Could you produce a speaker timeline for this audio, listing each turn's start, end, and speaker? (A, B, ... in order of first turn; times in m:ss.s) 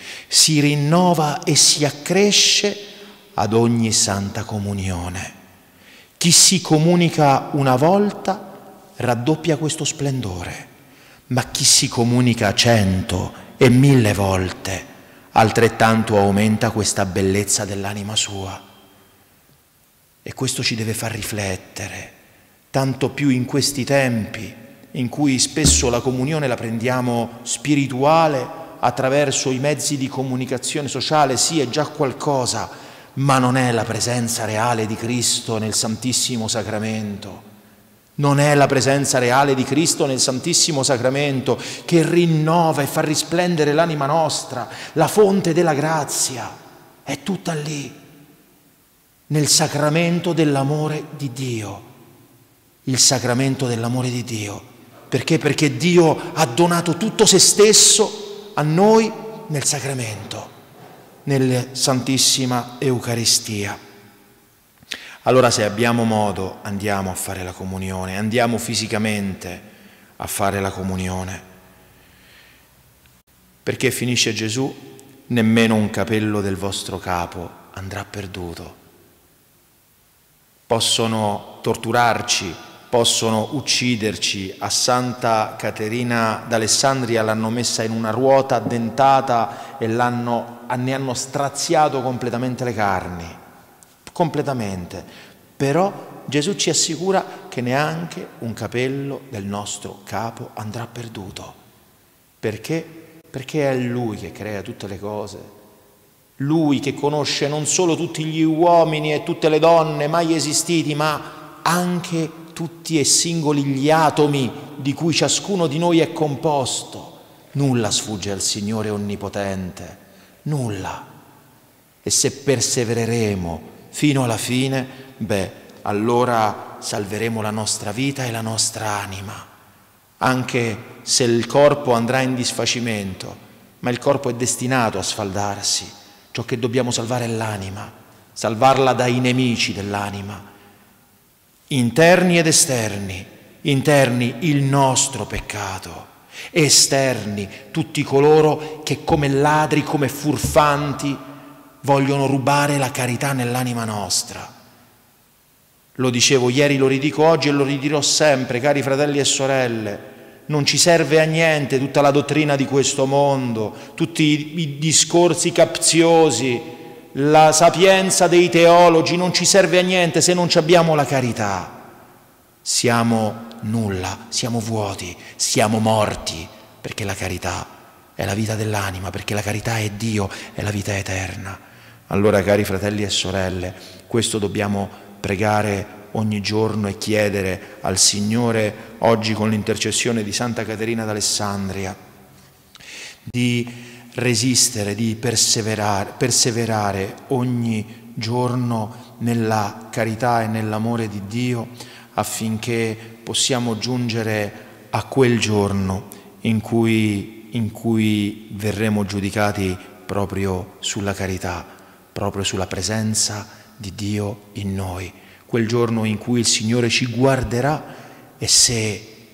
0:00.3-0:05.4 A
0:06.2-0:10.7 A
0:11.3-0:18.6 A
0:20.2-0:22.2 A
0:22.7-0:37.5 A
0:38.2-0:48.0 A
0:49.3-0:51.9 A
0:52.8-1:00.5 A
1:01.2-1:03.8 A
1:05.2-1:09.7 A
1:10.2-1:11.5 A
1:13.6-1:18.8 A
1:20.7-1:33.4 A
1:34.0-1:41.6 A
1:42.4-1:45.5 A
1:46.4-2:01.1 A
2:02.0-2:09.5 A
2:10.2-2:20.5 A
2:21.7-2:31.2 A
2:31.8-2:34.5 A
2:36.0-2:51.8 A
2:52.6-3:12.0 A
3:13.3-3:39.2 A